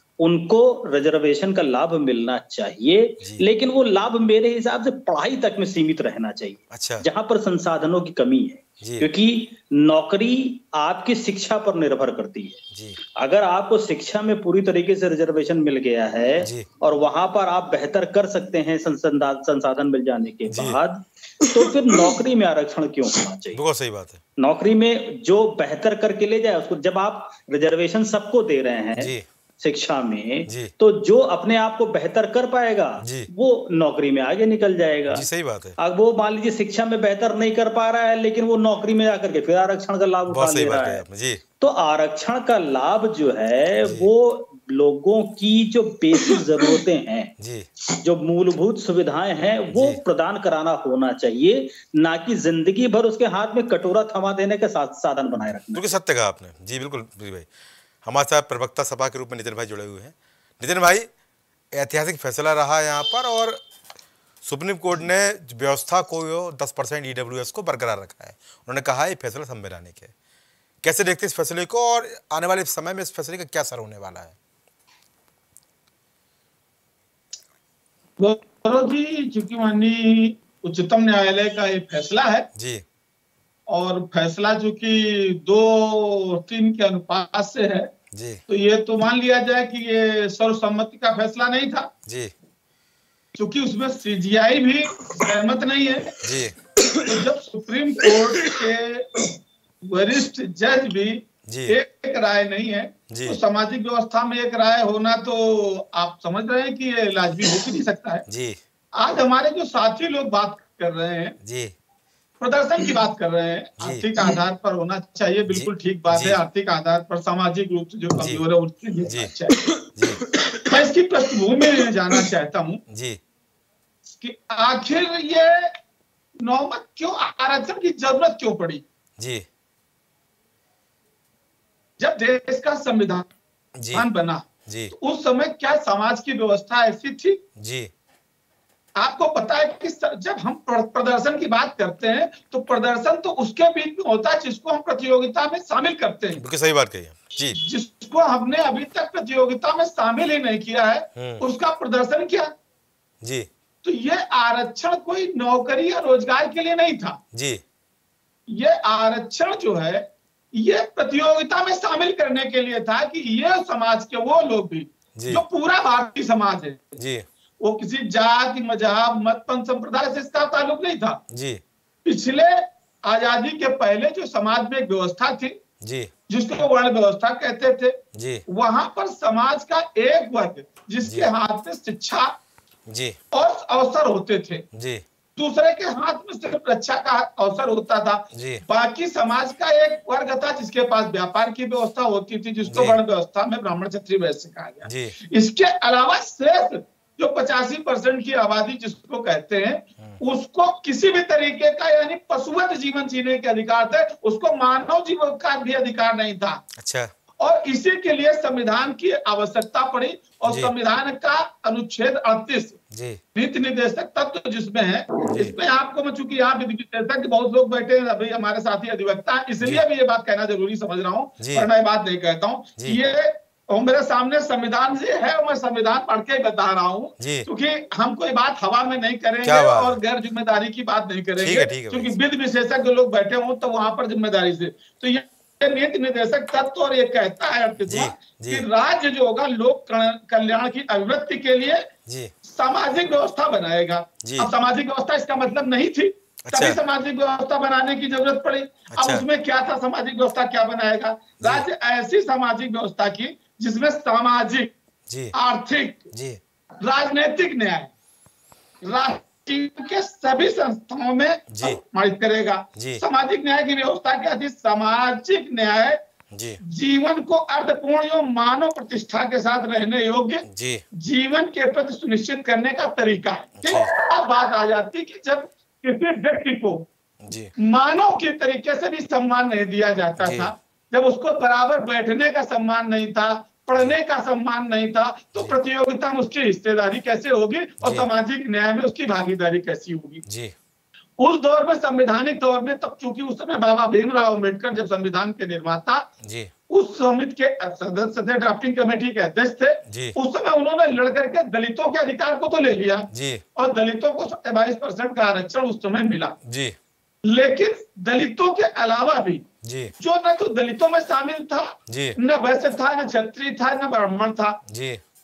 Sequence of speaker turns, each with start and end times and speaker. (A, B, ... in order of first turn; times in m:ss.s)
0:00.2-0:12.6 A
0:06.7-0:07.0 B
0:08.8-0:09.1 B
0:13.2-0:23.6 A
0:16.4-0:16.6 B
0:20.5-0:20.8 B
0:23.5-0:24.2 B
0:24.4-0:35.3 A
0:29.0-0:29.2 B
0:33.0-0:33.3 B
0:35.1-0:35.8 B
0:35.8-0:41.0 A
0:40.3-0:41.4 B
0:41.6-0:47.3 A
0:43.8-0:44.1 B
0:47.4-0:47.7 B
0:47.9-0:55.8 A
0:49.7-0:50.0 B
0:55.7-0:57.5 B
0:58.0-1:01.1 B
1:01.7-1:03.6 B
1:04.4-1:10.1 B
1:10.8-1:14.3 B
1:18.2-1:22.5 C
1:22.6-1:22.8 B
1:23.7-1:27.9 C
1:28.1-1:28.4 B
1:28.5-1:31.9 C
1:32.1-1:32.3 B
1:33.4-1:36.2 C
1:36.2-1:36.6 B
1:37.0-1:39.3 C
1:39.8-1:48.2 C
1:41.5-1:41.7 B
1:43.1-1:43.4 B
1:48.3-1:48.6 B
1:49.0-1:51.4 C
1:51.4-1:51.7 B
1:52.4-1:59.7 C
1:53.8-1:54.0 B
1:55.5-1:56.4 B
1:58.1-1:58.4 B
1:59.9-2:00.2 B
2:00.6-2:02.8 C
2:02.9-2:03.2 B
2:04.2-2:05.7 C
2:06.4-2:08.8 C
2:09.2-2:09.4 B
2:12.0-2:13.3 C
2:13.8-2:14.1 B
2:13.9-2:17.4 C
2:14.6-2:14.9 B
2:17.6-2:17.9 B
2:19.0-2:26.4 C
2:26.4-2:27.6 B
2:27.5-2:32.5 C
2:31.2-2:31.4 B
2:33.2-2:33.5 B
2:33.8-2:37.2 C
2:37.3-2:37.6 B
2:38.5-2:46.9 C
2:45.2-2:45.4 B
2:47.0-2:47.2 B
2:47.6-2:51.2 C
2:51.3-2:51.6 B
2:52.0-2:55.6 C
2:55.8-2:56.1 B
2:56.3-3:02.3 C
2:58.1-2:58.4 B
3:02.9-3:03.2 B
3:03.3-3:04.6 C
3:04.7-3:05.0 B
3:05.4-3:26.6 C
3:08.3-3:08.6 B
3:12.7-3:13.0 B
3:14.9-3:15.1 B
3:26.8-3:27.1 B
3:27.4-3:32.8 C
3:30.4-3:30.7 B
3:32.9-3:33.2 B
3:33.3-4:01.9 C
3:35.3-3:35.5 B
3:41.4-3:41.7 B
3:47.2-3:47.4 B
3:49.4-3:50.0 B
3:51.4-3:52.2 B
3:57.9-3:58.6 B
4:02.1-4:02.3 B
4:02.4-4:14.7 C
4:04.2-4:04.5 B
4:06.4-4:06.8 B
4:08.9-4:09.2 B
4:15.3-4:16.1 C
4:16.1-4:16.4 B
4:16.8-4:17.9 C
4:18.8-4:26.0 C
4:21.5-4:21.8 B
4:22.8-4:23.0 B
4:26.3-4:26.6 B
4:26.6-4:30.4 C
4:30.5-4:30.8 B
4:31.0-4:36.9 C
4:33.6-4:33.9 B
4:37.2-4:37.5 B
4:37.6-4:50.2 C
4:40.2-4:40.5 B
4:47.8-4:48.1 B
4:50.2-4:50.5 B
4:51.2-4:56.1 C
4:56.2-4:56.5 B
4:56.7-5:06.4 C
4:59.9-5:00.1 B
5:03.1-5:03.4 B
5:06.4-5:06.8 B
5:07.2-5:09.4 C
5:09.6-5:09.9 B
5:10.0-5:14.6 C
5:11.9-5:12.2 B
5:14.7-5:15.0 B